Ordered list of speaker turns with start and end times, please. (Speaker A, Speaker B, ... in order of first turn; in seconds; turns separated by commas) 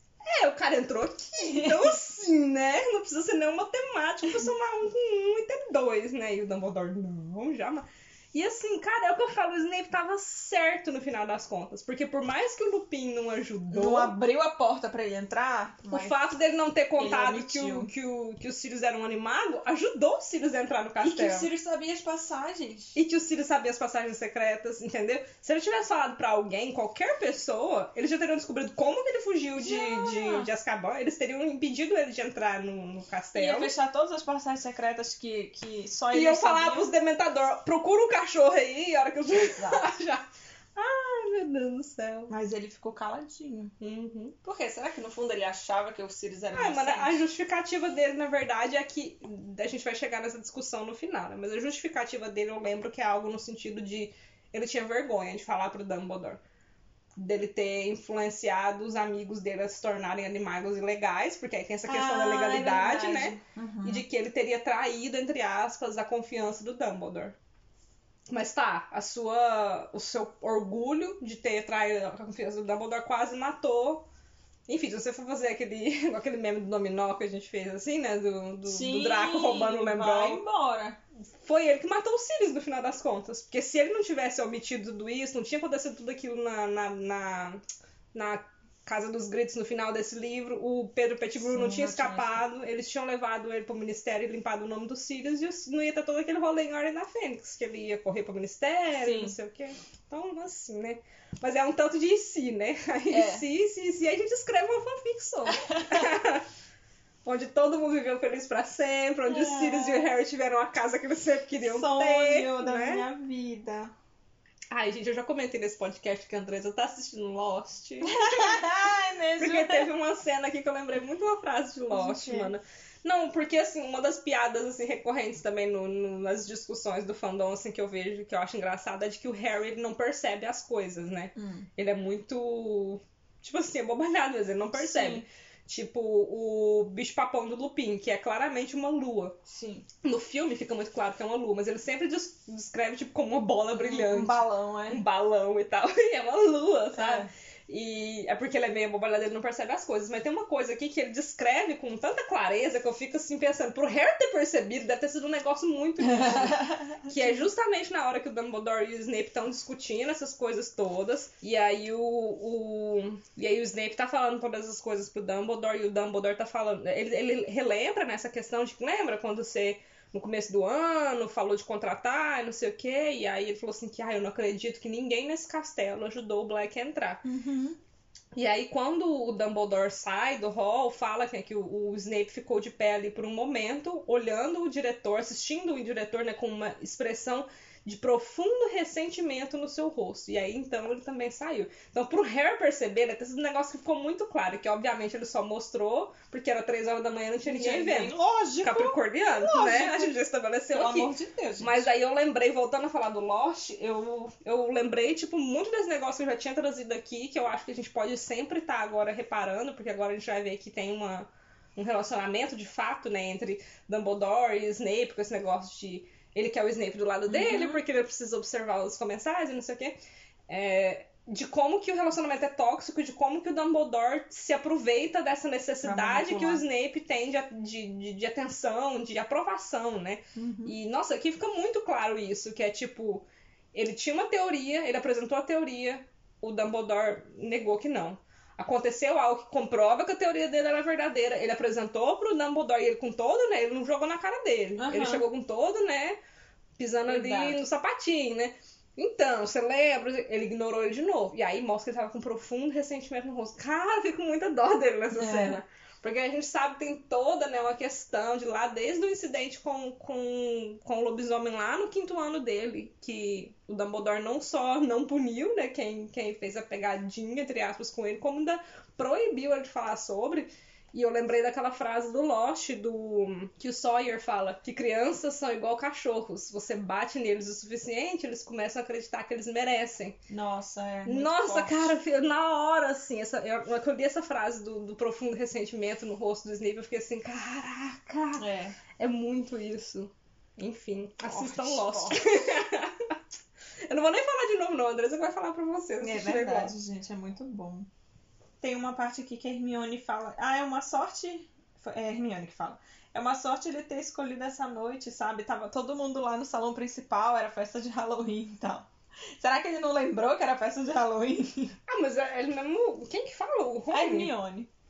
Speaker A: 0.2-14.1, Speaker B: 1.4-2.0, Speaker B: 13.7-16.1, Speaker A: 15.9-21.5, Speaker B: 17.0-17.9, Speaker B: 21.0-22.9, Speaker A: 22.9-33.7, Speaker B: 29.6-30.5, Speaker B: 33.3-36.9, Speaker A: 36.1-42.3, Speaker B: 39.3-39.9, Speaker B: 42.3-43.7, Speaker A: 43.8-44.4, Speaker B: 44.4-47.2, Speaker A: 46.5-56.4, Speaker A: 57.1-67.4, Speaker B: 61.9-64.0, Speaker A: 68.3-74.1, Speaker A: 74.7-80.4, Speaker B: 78.7-81.0, Speaker A: 81.4-87.6, Speaker A: 88.1-106.5, Speaker B: 91.4-92.4, Speaker B: 99.0-99.3, Speaker B: 103.1-103.4, Speaker B: 105.4-106.2, Speaker A: 107.2-113.1, Speaker B: 109.2-110.1, Speaker B: 111.6-113.9, Speaker A: 114.7-118.8, Speaker B: 118.0-119.9, Speaker A: 119.4-139.3, Speaker B: 121.9-122.5, Speaker B: 131.3-131.7, Speaker B: 134.7-135.2, Speaker B: 139.4-139.8, Speaker A: 140.0-177.2, Speaker B: 143.7-145.0, Speaker B: 146.9-147.3, Speaker B: 156.0-157.5, Speaker B: 177.2-177.8, Speaker A: 178.3-220.0, Speaker B: 197.4-200.2, Speaker B: 200.7-201.9, Speaker B: 217.3-217.8, Speaker A: 220.5-246.2, Speaker B: 225.8-226.6, Speaker B: 230.3-230.8, Speaker B: 244.8-245.3, Speaker A: 246.8-280.2, Speaker B: 247.1-247.6, Speaker B: 255.1-255.6, Speaker B: 280.3-281.9, Speaker A: 281.0-288.5, Speaker B: 288.4-288.8, Speaker A: 289.0-293.1, Speaker B: 291.2-292.2, Speaker A: 293.8-296.7, Speaker B: 296.0-297.9, Speaker B: 298.6-311.7, Speaker A: 311.9-314.3, Speaker B: 313.9-314.7